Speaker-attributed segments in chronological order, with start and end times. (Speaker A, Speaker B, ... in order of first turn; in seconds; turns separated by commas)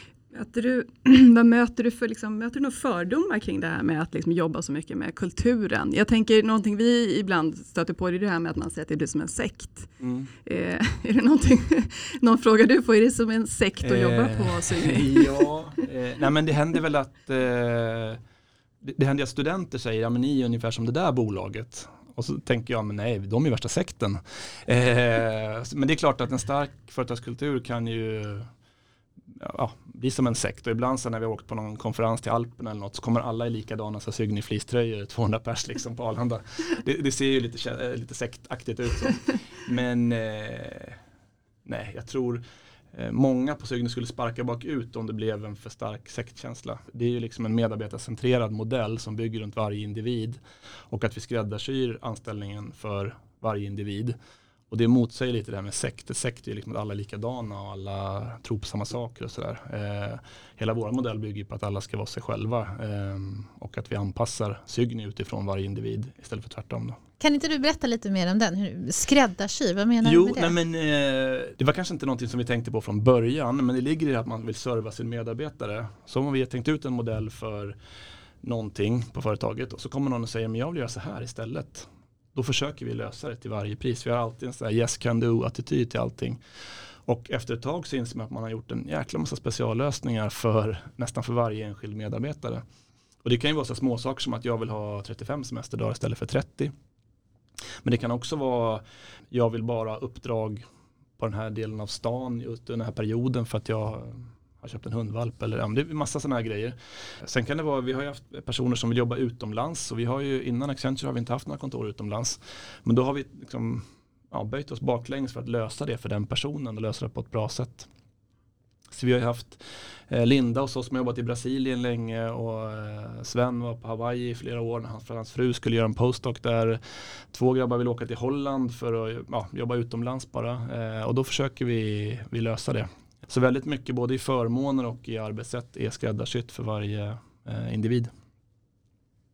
Speaker A: 0.3-9.9, Speaker B: 10.0-10.3, Speaker A: 10.4-15.5, Speaker B: 13.8-18.2, Speaker B: 18.8-28.5, Speaker B: 29.3-41.0, Speaker B: 41.6-54.1, Speaker B: 54.7-67.0, Speaker C: 67.2-70.5, Speaker B: 70.0-77.8, Speaker B: 78.4-86.4, Speaker B: 87.0-92.6, Speaker B: 93.2-96.7, Speaker B: 97.8-100.6, Speaker B: 101.2-117.9, Speaker B: 118.9-126.8, Speaker B: 127.3-138.1